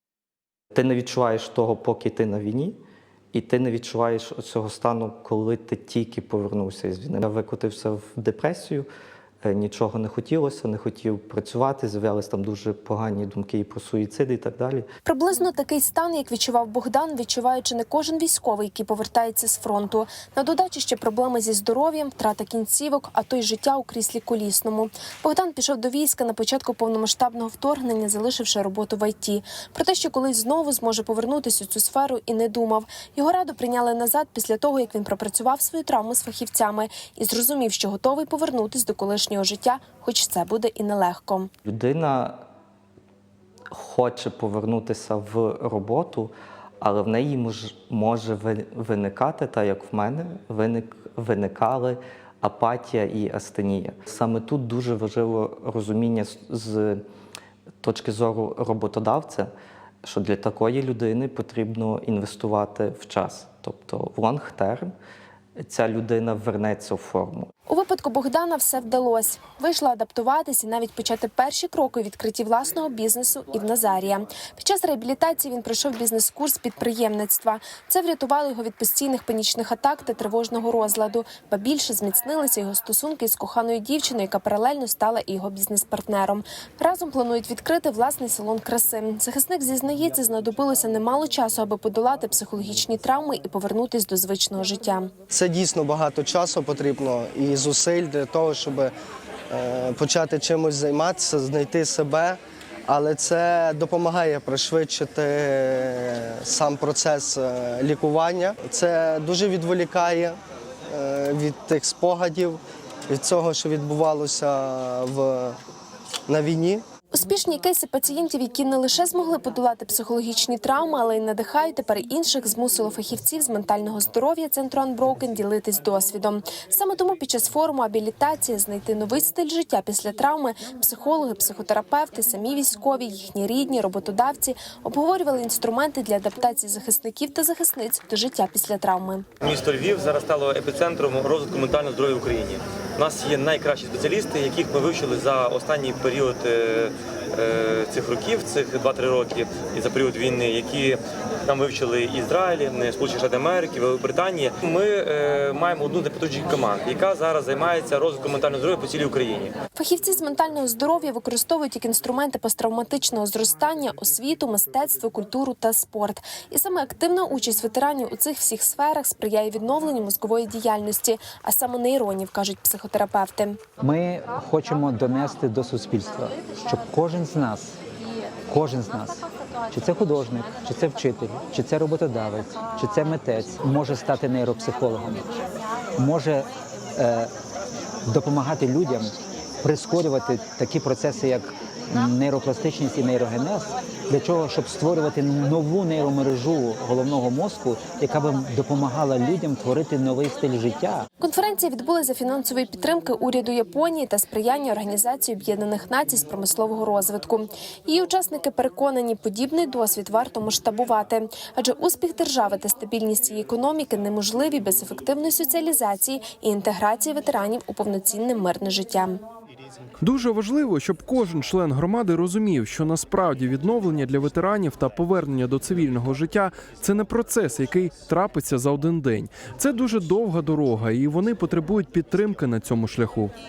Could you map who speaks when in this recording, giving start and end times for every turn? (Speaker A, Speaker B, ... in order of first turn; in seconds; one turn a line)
Speaker A: 0.7-2.8
Speaker A: 3.3-8.9
Speaker A: 9.4-14.9
Speaker B: 15.0-41.5
Speaker A: 41.6-42.4
Speaker A: 43.7-57.0
Speaker A: 57.8-59.5
Speaker A: 60.0-64.9
Speaker A: 65.6-67.5
Speaker B: 67.7-95.1
Speaker C: 95.3-98.9
Speaker C: 99.5-110.4
Speaker C: 110.9-115.5
Speaker C: 116.3-116.8
Speaker B: 117.1-139.2
Speaker D: 139.4-159.5
Speaker B: 159.7-173.6
Speaker E: 173.8-177.8
Speaker E: 178.5-185.3
Speaker E: 186.0-187.3
Speaker E: 188.1-201.1
Speaker B: 201.2-219.2
Speaker F: 220.0-233.3